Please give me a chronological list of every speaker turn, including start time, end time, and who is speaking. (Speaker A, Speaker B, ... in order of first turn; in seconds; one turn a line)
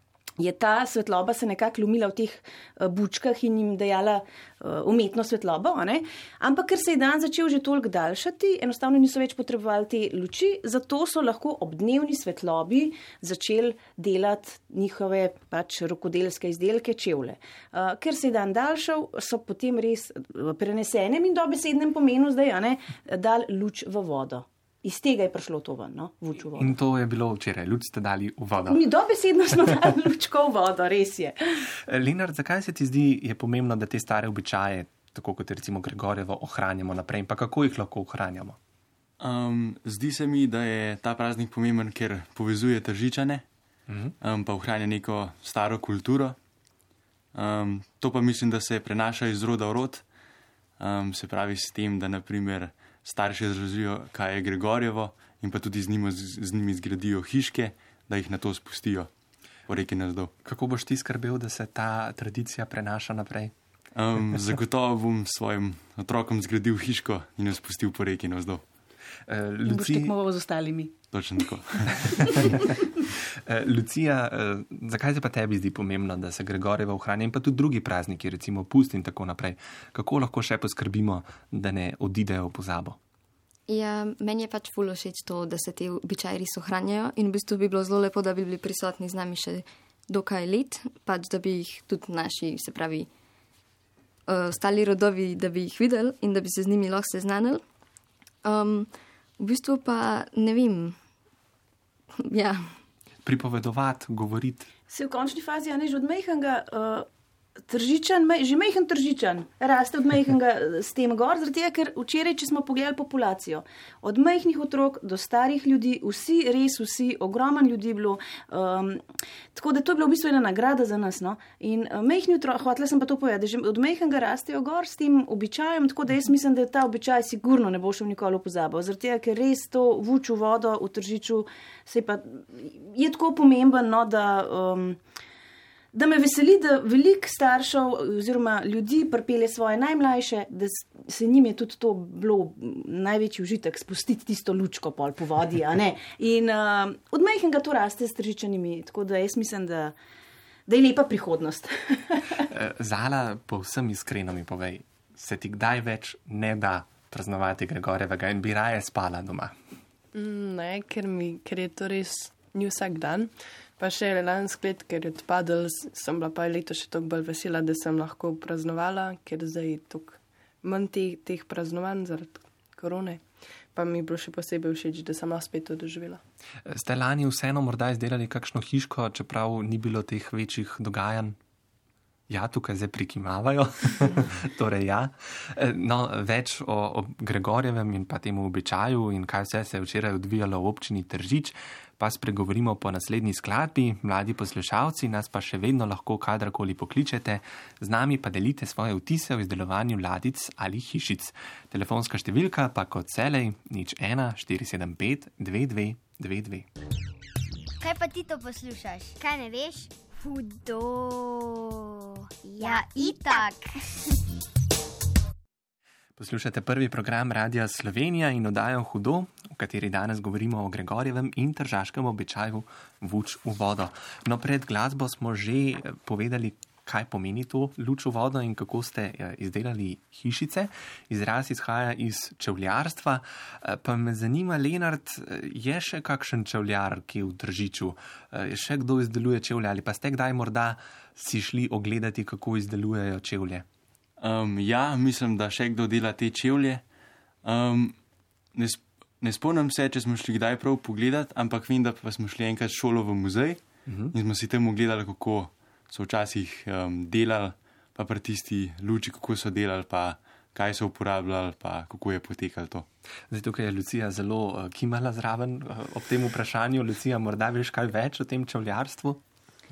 Speaker A: 0.4-26.7
Speaker B: 26.6-28.8
Speaker A: 28.7-31.7
Speaker B: 31.8-38.6
Speaker C: 39.2-43.4
Speaker B: 43.9-44.1
Speaker C: 44.2-46.4
Speaker C: 47.3-50.0
Speaker C: 50.8-59.1
Speaker C: 59.7-60.3
Speaker B: 60.4-63.5
Speaker C: 64.0-68.6
Speaker B: 69.3-70.1
Speaker A: 69.7-70.9
Speaker C: 71.1-72.3
Speaker A: 72.2-72.5
Speaker B: 73.1-83.0
Speaker D: 83.7-93.1
Speaker D: 94.3-97.6
Speaker D: 98.4-101.0
Speaker D: 102.2-102.7
Speaker B: 103.2-104.7
Speaker A: 104.9-107.1
Speaker A: 107.6-119.0
Speaker A: 119.5-135.0
Speaker A: 135.9-149.9
Speaker A: 150.7-152.5
Speaker B: 152.5-159.5
Speaker E: 160.1-176.2
Speaker B: 176.6-181.4
Speaker B: 182.3-206.7
Speaker F: 207.8-211.7
Speaker F: 212.4-213.7
Speaker B: 216.2-243.7
Speaker C: 244.2-246.8
Speaker C: 247.4-248.0
Speaker C: 248.5-262.9
Speaker B: 253.8-254.1
Speaker B: 263.3-269.2